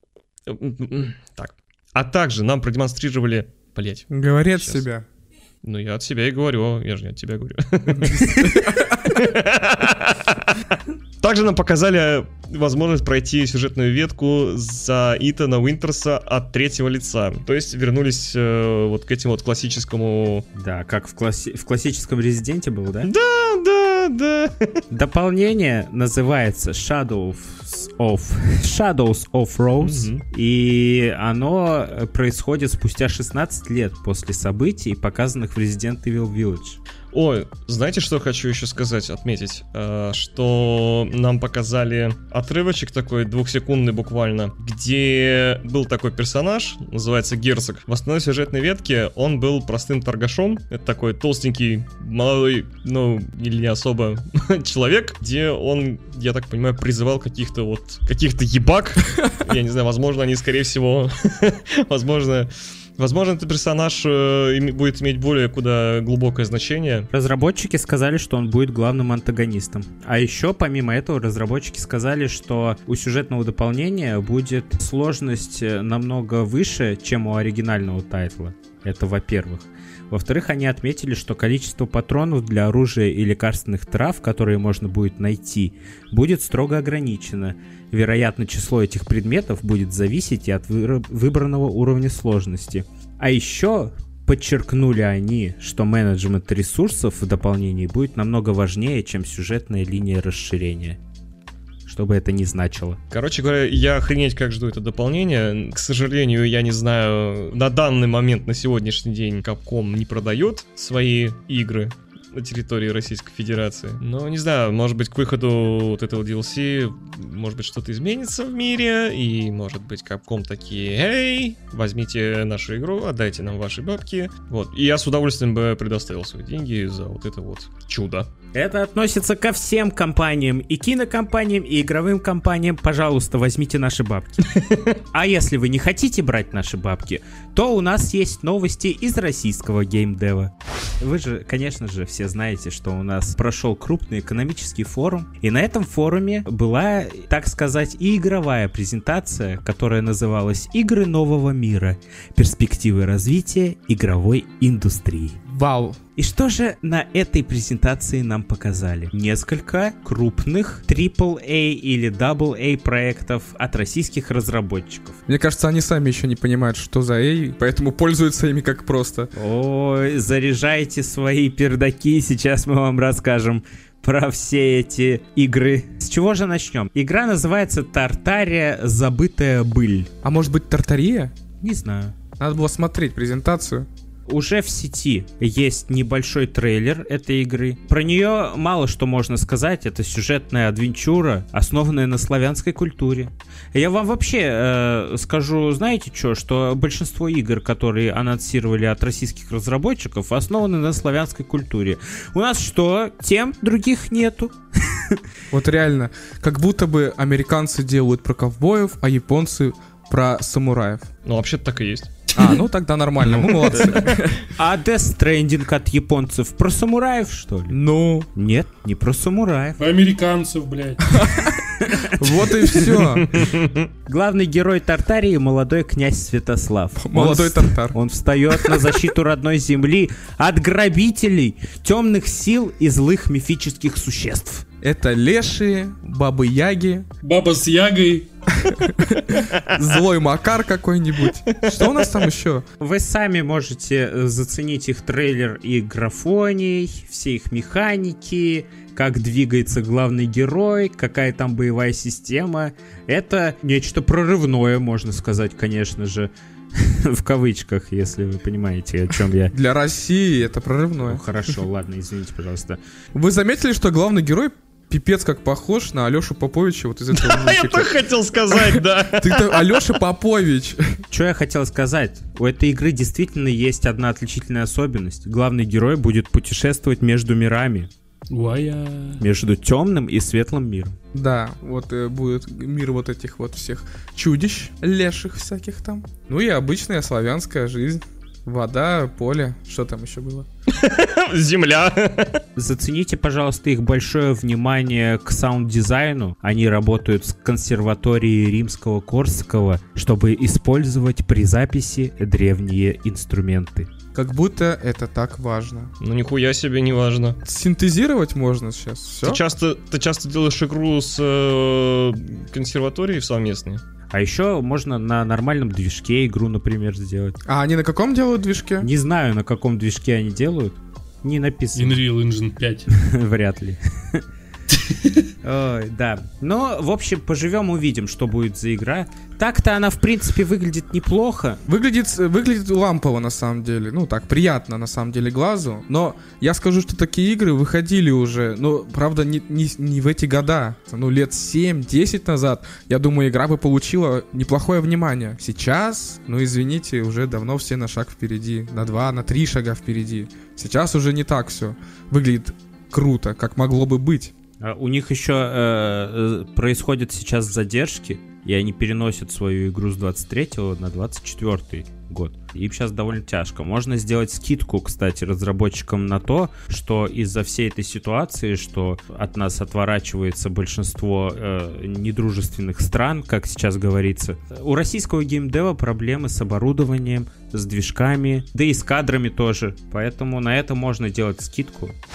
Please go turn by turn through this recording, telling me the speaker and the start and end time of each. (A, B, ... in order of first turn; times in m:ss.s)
0:00.5-0:04.8 A
0:04.1-0:05.0 B
0:05.6-0:20.4 A
0:07.9-0:09.1 B
0:20.5-0:23.1 C
0:23.0-0:24.8 A
0:24.9-0:36.8 C
0:29.8-0:30.2 A
0:37.1-1:07.1 A
1:07.1-1:41.0 C
1:41.8-1:43.0 C
1:43.1-2:08.3 A
2:08.5-2:14.6 C
2:15.1-2:35.4 C
2:35.5-2:36.0 B
2:36.2-2:45.2 C
2:45.2-2:49.3 B
2:49.3-3:00.1 C
3:00.2-3:01.3 B
3:01.6-3:02.1 C
3:02.4-3:03.9 B
3:04.3-3:25.2 C
3:25.5-3:31.1 B
3:31.2-3:32.3 A
3:32.3-3:34.4 B
3:33.2-3:33.9 C
3:33.6-3:34.3 A
3:34.5-3:37.8 C
3:37.7-3:38.3 B
3:38.3-3:39.8 C
3:39.8-3:41.4 D
3:41.1-3:43.3 B
3:41.7-3:43.0 C
3:43.0-3:43.9 A
3:44.0-3:54.6 C
3:47.0-3:48.0 B
3:48.5-3:49.0 B
3:54.8-3:57.0 B
3:57.2-3:58.3 D
3:58.6-4:02.6 B
4:01.6-4:02.2 A
4:02.8-4:19.5 C
4:19.5-4:21.2 B
4:21.0-4:22.8 C
4:23.1-4:27.9 B
4:27.1-4:29.6 A
4:28.5-4:31.0 B
4:31.1-4:37.9 C
4:38.3-4:39.2 D
4:39.2-4:41.0 C
4:41.1-4:50.5 B
4:50.7-4:52.4 A
4:52.6-5:03.9 C
5:04.1-5:05.9 B
5:06.0-5:07.4 A
5:07.4-5:09.4 B
5:09.2-5:13.8 A
5:14.1-5:17.4 C
5:17.4-5:18.9 B
5:18.8-5:22.0 C
5:21.7-5:22.9 D
5:22.9-5:24.2 C
5:24.8-5:25.2 D
5:25.4-5:31.6 C
5:31.6-5:54.3 B
5:54.6-6:22.0 C